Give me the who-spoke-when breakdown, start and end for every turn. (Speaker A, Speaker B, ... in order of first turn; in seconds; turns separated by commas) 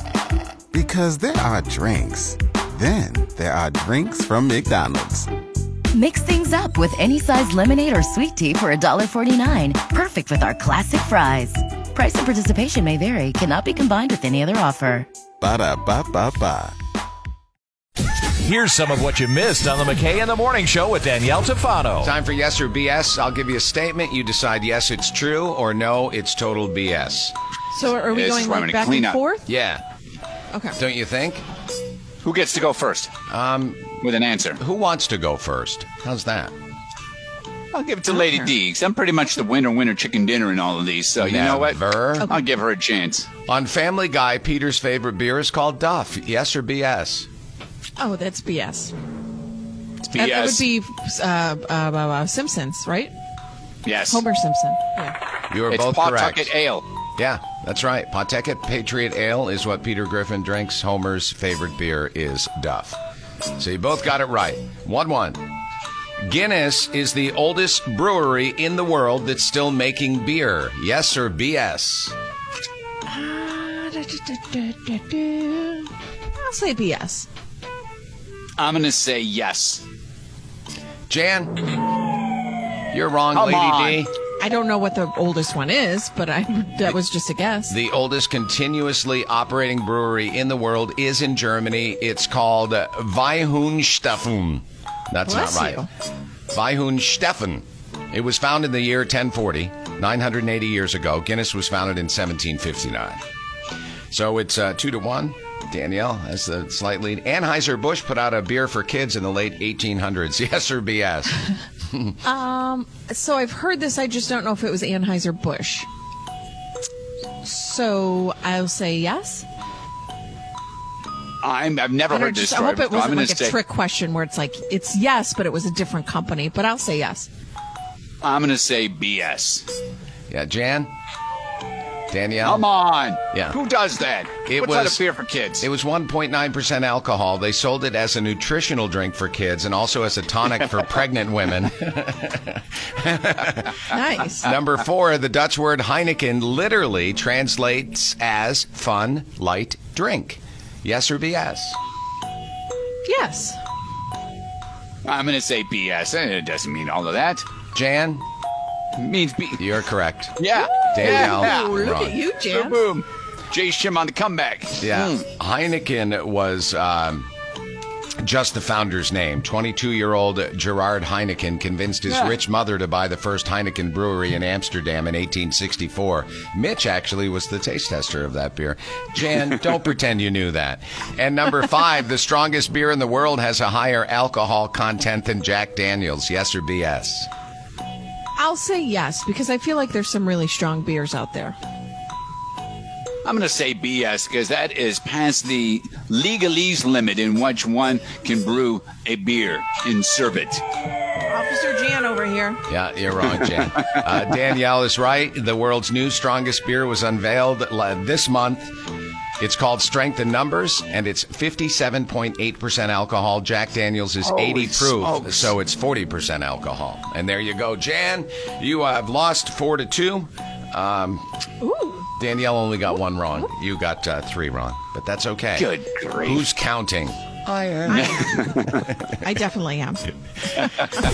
Speaker A: 0.7-5.3, Speaker B: 5.9-15.1, Speaker A: 15.4-16.8, Speaker C: 18.4-22.1, Speaker D: 22.0-27.4, Speaker E: 27.7-29.5, Speaker F: 28.1-29.2, Speaker D: 29.5-29.8, Speaker E: 30.5-30.8, Speaker D: 30.8-31.4, Speaker F: 32.2-33.1, Speaker D: 33.3-34.0, Speaker F: 34.0-34.6, Speaker D: 34.6-36.5, Speaker F: 37.7-43.3, Speaker E: 38.1-38.5, Speaker D: 41.2-42.3, Speaker D: 43.5-47.3, Speaker E: 48.0-48.9, Speaker F: 50.0-50.7, Speaker E: 50.1-53.1, Speaker F: 53.9-54.2, Speaker E: 54.1-55.1, Speaker D: 55.5-56.5, Speaker F: 55.7-56.9, Speaker D: 57.2-63.0, Speaker D: 63.6-65.4, Speaker D: 66.3-72.2, Speaker E: 73.1-77.3, Speaker F: 78.6-79.8, Speaker D: 81.1-81.6, Speaker D: 82.9-84.1, Speaker F: 83.3-84.0, Speaker E: 84.4-87.8, Speaker D: 87.7-95.8, Speaker E: 95.2-95.9, Speaker D: 96.5-103.2, Speaker D: 104.1-111.4, Speaker E: 112.2-115.9, Speaker E: 117.4-119.5, Speaker F: 121.4-123.6, Speaker E: 122.1-127.3, Speaker F: 128.2-129.7, Speaker D: 130.3-130.9, Speaker D: 132.1-132.7, Speaker F: 132.4-135.7, Speaker D: 133.3-133.6, Speaker D: 134.5-135.0, Speaker D: 135.6-143.8, Speaker E: 143.9-144.5, Speaker D: 144.4-151.8, Speaker E: 153.1-153.6, Speaker F: 155.1-157.5, Speaker D: 157.7-158.2, Speaker F: 159.0-159.8, Speaker D: 159.6-162.2, Speaker F: 160.4-161.7, Speaker E: 160.6-162.8, Speaker F: 162.4-165.2, Speaker D: 164.8-167.3, Speaker D: 168.2-187.3, Speaker F: 172.1-172.4, Speaker E: 188.4-191.6, Speaker F: 193.2-200.6, Speaker E: 201.3-202.6, Speaker D: 202.7-208.7, Speaker D: 209.4-221.2, Speaker F: 214.2-215.5, Speaker E: 221.6-222.1, Speaker D: 222.2-229.0, Speaker F: 225.6-226.4, Speaker F: 227.9-228.8, Speaker E: 227.9-228.3, Speaker E: 229.2-230.1